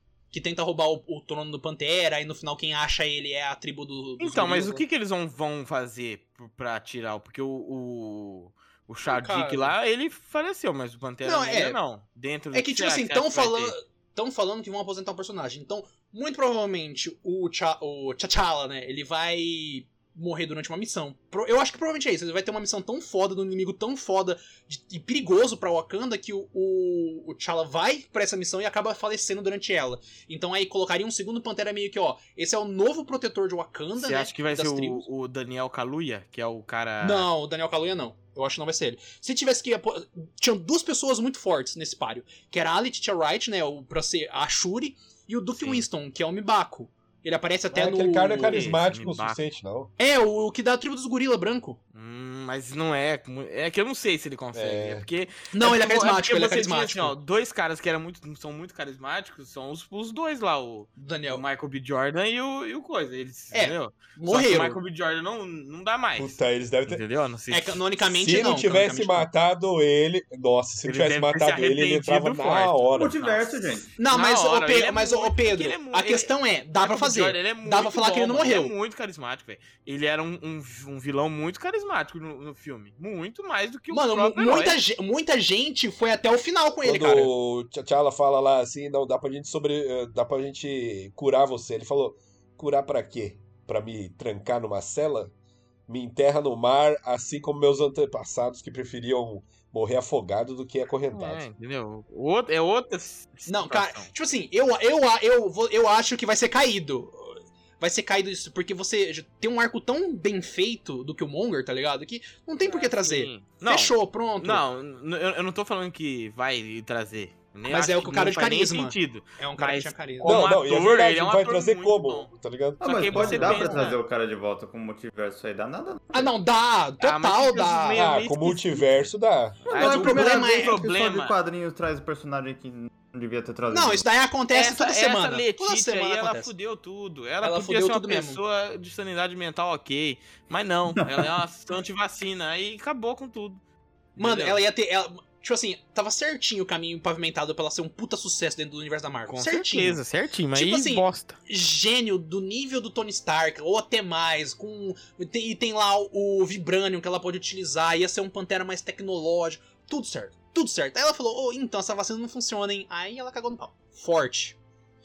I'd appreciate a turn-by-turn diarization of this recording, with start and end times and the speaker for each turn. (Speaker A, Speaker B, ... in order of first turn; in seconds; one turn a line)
Speaker A: 0.3-4.8
Speaker B: 4.2-13.8
Speaker A: 9.1-9.8
Speaker A: 11.2-11.8
Speaker A: 12.5-35.1
Speaker B: 34.0-37.3
Speaker A: 37.0-48.7
Speaker B: 45.6-45.9
Speaker C: 47.7-49.9
Speaker B: 48.5-49.4
Speaker A: 50.0-51.8
Speaker B: 51.9-67.8
Speaker C: 54.5-55.1
Speaker A: 55.5-57.1
Speaker A: 61.0-61.4
Speaker A: 63.5-64.8
Speaker C: 66.2-67.0
Speaker A: 67.5-69.3
Speaker C: 68.0-73.2
Speaker B: 70.8-84.8
Speaker D: 73.0-73.9
Speaker A: 74.0-78.8
Speaker A: 83.9-87.3
Speaker C: 86.8-95.3
Speaker C: 95.9-101.5
Speaker B: 101.1-104.1
Speaker A: 103.5-114.6
Speaker B: 112.6-124.0
Speaker A: 117.7-120.3
Speaker C: 120.2-123.8
Speaker D: 122.8-126.3
Speaker A: 126.1-128.1
Speaker B: 127.0-129.1
Speaker C: 127.9-129.7
Speaker B: 129.7-131.3
Speaker D: 129.7-134.1
Speaker A: 129.8-130.8
Speaker A: 133.7-136.5
Speaker B: 134.5-143.6
Speaker A: 137.4-138.4
Speaker B: 144.2-144.6
Speaker A: 144.2-150.0
Speaker B: 149.3-151.4
Speaker A: 150.5-164.6